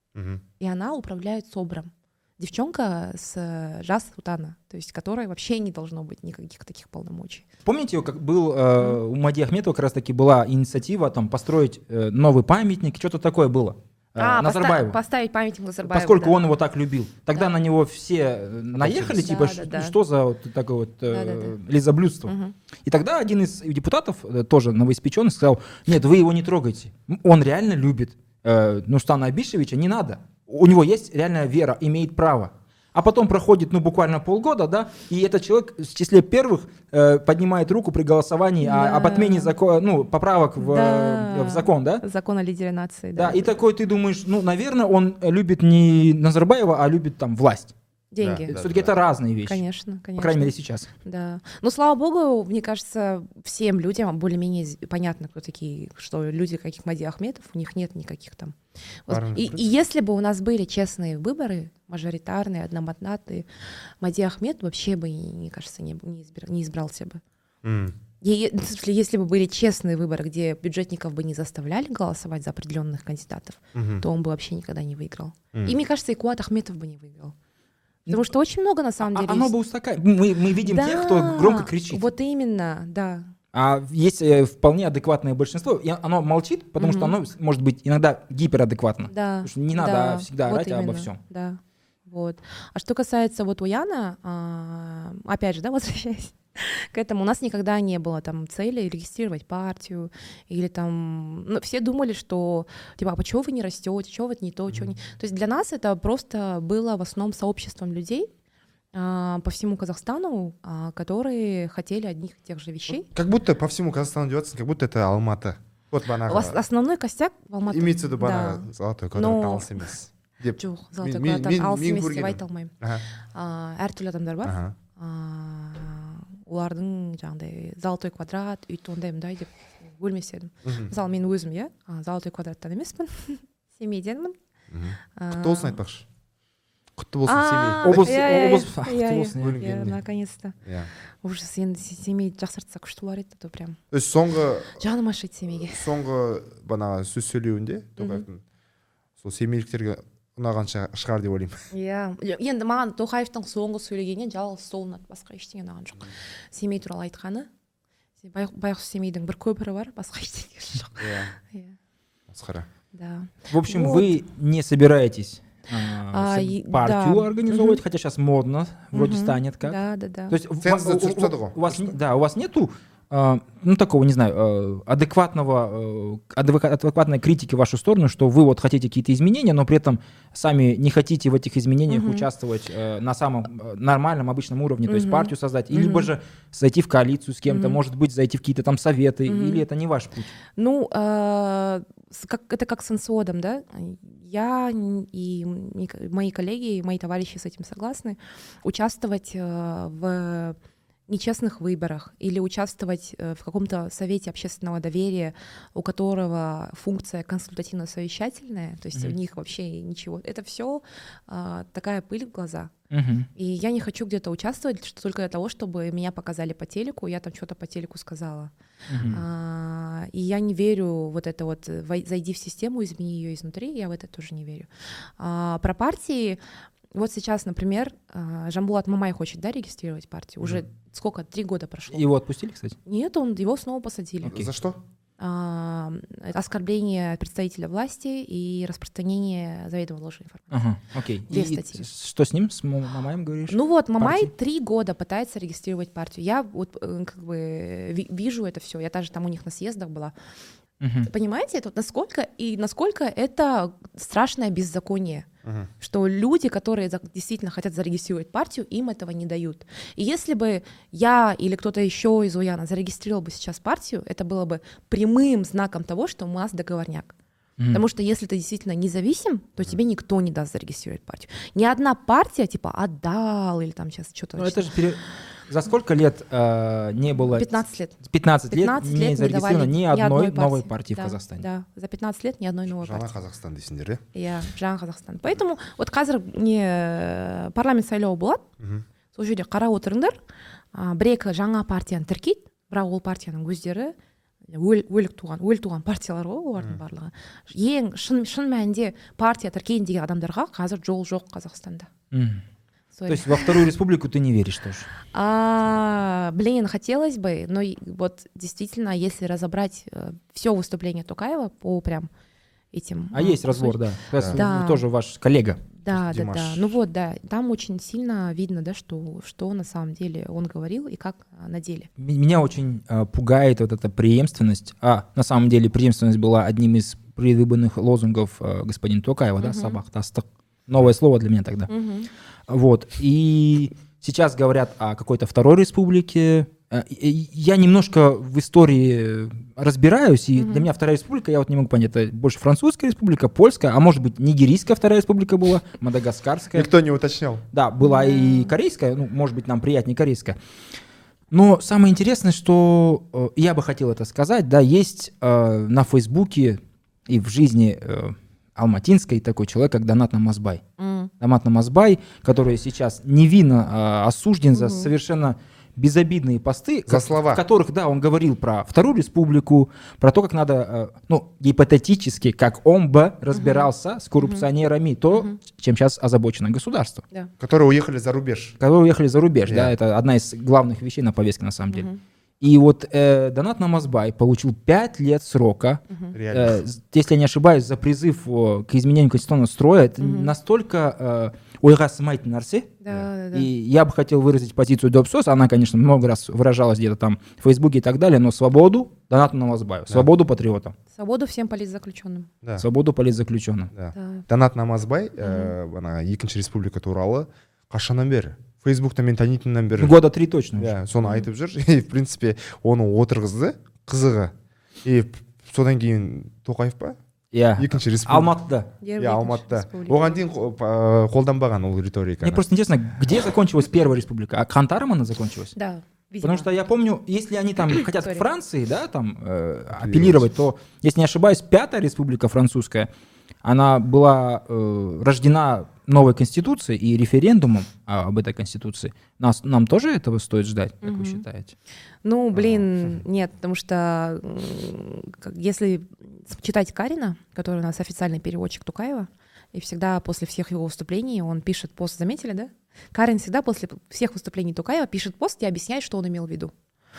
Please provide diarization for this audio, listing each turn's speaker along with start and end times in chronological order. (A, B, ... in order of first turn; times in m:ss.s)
0:00.1-0:00.4 A
0:00.6-0:07.4 B
0:07.6-0:15.0 C
0:14.2-0:16.4 B
0:15.8-0:22.3 C
0:18.8-0:20.0 B
0:21.1-0:21.6 B
0:22.2-0:22.5 B
0:22.8-0:42.0 C
0:38.6-0:39.5 B
0:40.6-0:43.5 B
0:43.2-0:47.7 C
0:48.1-0:48.6 B
0:48.2-0:48.9 A
0:48.5-0:49.6 C
0:49.4-0:50.5 B
0:50.2-0:50.9 C
0:51.0-1:03.5 B
0:59.1-0:59.6 A
1:04.0-1:07.2 B
1:07.6-1:08.0 A
1:08.2-1:17.3 B
1:13.7-1:14.0 A
1:18.0-1:19.5 B
1:19.0-1:22.0 C
1:20.6-1:23.3 B
1:23.5-1:31.2 C
1:26.8-1:27.2 B
1:29.1-1:48.3 B
1:48.9-1:53.1 B
1:52.9-1:56.6 A
1:56.2-1:59.9 B
1:57.7-2:03.0 A
2:00.6-2:02.7 B
2:03.3-2:14.4 B
2:04.4-2:04.8 A
2:10.6-2:10.9 A
2:14.7-2:16.0 A
2:15.2-2:15.8 B
2:17.0-2:18.2 A
2:17.3-2:20.6 B
2:17.8-2:19.9 C
2:19.4-2:19.9 A
2:20.6-2:20.9 A
2:21.2-2:23.8 B
2:23.9-2:24.8 A
2:24.7-2:25.9 B
2:25.6-2:28.4 A
2:28.0-2:28.2 B
2:29.2-2:31.7 A
2:31.7-2:37.5 B
2:38.2-2:41.8 B
2:41.0-2:41.3 A
2:42.3-2:42.7 A
2:42.9-2:44.1 B
2:43.5-2:49.8 C
2:46.1-2:47.8 B
2:48.9-2:50.4 B
2:50.3-3:10.3 C
2:50.6-2:52.0 A
3:01.9-3:02.3 B
3:04.9-3:06.1 B
3:07.5-3:07.8 B
3:09.2-3:09.6 B
3:10.6-3:20.6 B
3:21.1-3:32.7 B
3:32.9-3:33.3 C
3:33.3-3:38.5 B
3:38.9-3:39.2 C
3:39.0-3:46.4 B
3:46.9-3:52.1 B
3:51.9-3:52.8 C
3:52.8-3:54.4 B
3:54.2-3:54.8 A
3:55.2-4:00.6 B
4:00.5-4:04.3 C
4:01.3-4:01.8 B
4:03.5-4:10.1 B
4:10.8-4:11.1 C
4:11.0-4:15.3 B
4:15.4-4:15.7 A
4:15.8-4:27.1 B
4:27.6-4:27.8 C
4:27.7-4:34.7 B
4:34.4-4:41.4 C
4:37.3-4:38.0 B
4:38.5-4:43.1 B
4:42.8-4:44.0 A
4:44.1-4:48.4 B
4:49.1-4:50.2 B
4:50.7-4:53.9 B
4:54.5-5:01.9 B
5:02.1-5:02.4 C
5:02.9-5:03.7 B
5:03.1-5:04.9 C
5:05.1-5:12.1 B
5:12.7-5:14.8 B
5:13.1-5:15.6 C
5:15.8-5:21.9 B
5:15.9-5:16.8 A
5:22.0-5:31.7 C
5:29.4-5:29.8 B
5:31.7-5:32.1 B
5:32.5-5:46.7 C
5:40.3-5:40.7 B
5:46.5-5:47.4 A
5:47.5-5:50.4 C
5:47.8-5:48.5 B
5:51.3-6:00.6 C
6:00.8-6:01.1 B
6:01.2-6:17.0 C
6:04.5-6:04.9 B
6:06.9-6:07.4 A
6:13.3-6:14.5 B
6:15.1-6:15.4 B
6:17.4-6:18.6 A
6:18.6-6:21.9 C
6:19.4-6:19.7 A
6:21.7-6:22.0 B
6:22.4-6:32.8 C
6:25.9-6:26.2 B
6:26.1-6:26.6 A
6:30.0-6:30.3 B
6:32.8-6:33.5 B
6:33.3-6:40.7 C
6:40.9-6:42.3 B
6:42.6-6:43.7 C
6:43.7-6:50.0 A
6:43.9-6:44.2 B
6:45.2-6:45.5 B
6:49.8-6:50.7 C
6:50.6-6:54.3 A
6:54.8-6:57.0 A
6:57.3-6:58.7 C
6:57.6-6:58.3 A
6:58.8-7:00.2 B
6:59.0-7:02.4 A
7:02.2-7:05.5 C
7:05.5-7:06.5 B
7:06.2-7:12.9 C
7:07.7-7:08.2 B
7:09.7-7:10.3 A
7:13.4-7:21.5 C
7:20.8-7:21.2 B
7:22.0-7:36.5 B
7:22.3-7:22.7 A